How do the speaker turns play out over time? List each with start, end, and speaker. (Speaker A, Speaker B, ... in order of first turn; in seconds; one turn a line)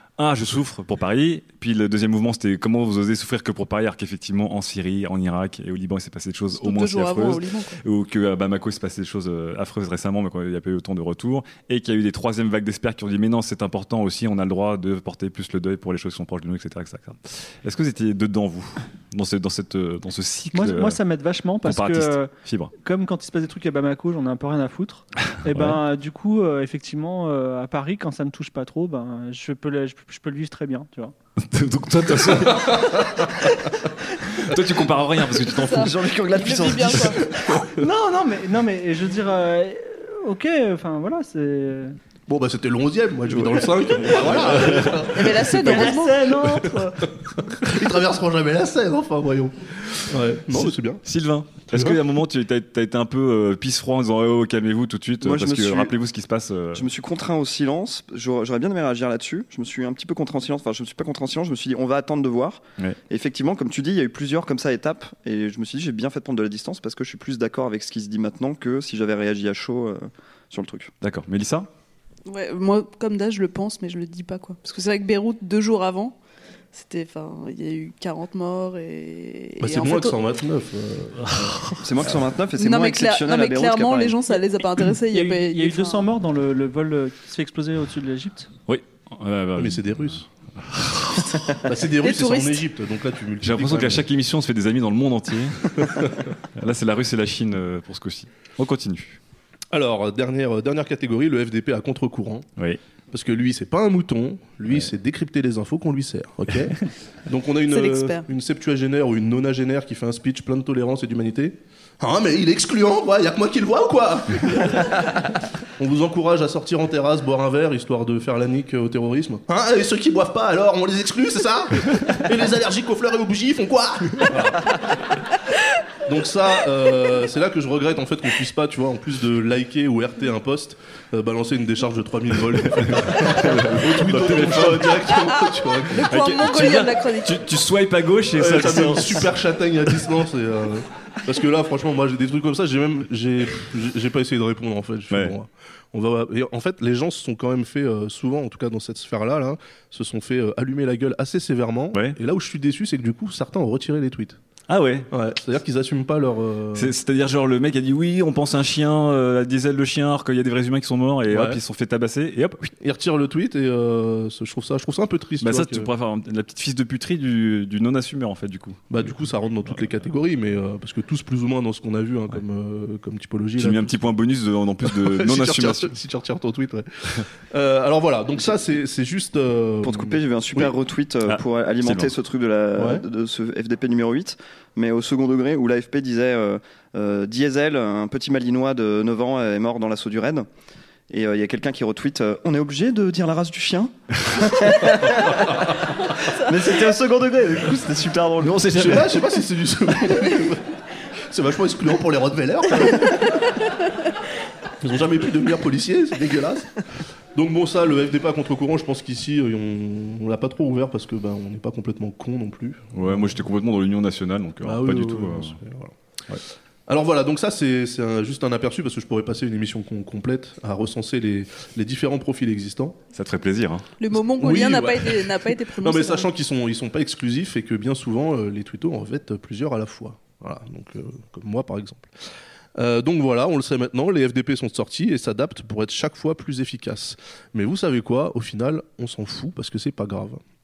Speaker A: 0.2-21.0
Speaker B: 6.5-7.8
Speaker C: 20.5-31.1
Speaker A: 21.6-22.7
Speaker A: 25.5-25.8
Speaker A: 31.4-33.1
Speaker D: 32.3-33.0
Speaker A: 34.4-37.1
Speaker B: 35.6-37.3
Speaker E: 35.9-37.0
Speaker C: 37.8-42.0
Speaker D: 42.3-45.5
Speaker A: 43.3-45.9
Speaker B: 45.1-46.2
Speaker C: 45.6-47.0
Speaker D: 47.6-51.0
Speaker A: 50.5-56.9
Speaker D: 51.7-52.0
Speaker E: 55.2-56.0
Speaker E: 56.7-70.9
Speaker A: 71.0-71.7
Speaker B: 72.3-76.2
Speaker B: 76.7-80.2
Speaker D: 79.6-81.5
Speaker A: 81.3-81.7
Speaker E: 81.8-84.2
Speaker B: 82.5-86.1
Speaker C: 85.1-88.5
Speaker A: 88.7-91.4
Speaker D: 89.6-90.3
Speaker D: 91.6-94.0
Speaker B: 92.0-92.7
Speaker A: 93.4-95.8
Speaker A: 96.6-99.2
Speaker D: 99.7-102.5
Speaker D: 103.1-115.0
Speaker B: 107.7-108.3
Speaker D: 115.8-124.6
Speaker D: 126.1-136.4
Speaker A: 132.8-135.0
Speaker B: 135.1-137.5
Speaker A: 136.1-139.3
Speaker D: 138.3-154.4
Speaker A: 151.9-152.2
Speaker A: 154.7-155.1
Speaker D: 155.1-156.9
Speaker A: 156.8-162.7
Speaker D: 161.3-161.6
Speaker D: 162.8-165.9
Speaker A: 165.4-169.1
Speaker D: 168.9-173.9
Speaker A: 173.6-175.9
Speaker D: 174.8-180.7
Speaker E: 179.8-190.5
Speaker A: 181.2-182.2
Speaker D: 182.8-183.0
Speaker E: 191.1-195.4
Speaker E: 196.4-198.7
Speaker A: 198.4-199.0
Speaker D: 198.7-200.8
Speaker D: 201.3-203.2
Speaker D: 204.8-206.7
Speaker D: 207.3-213.2
Speaker A: 212.9-215.6
Speaker D: 214.6-215.9
Speaker D: 216.9-223.0
Speaker A: 223.1-223.9
Speaker B: 224.0-226.3
Speaker D: 224.4-232.1
Speaker D: 232.8-240.4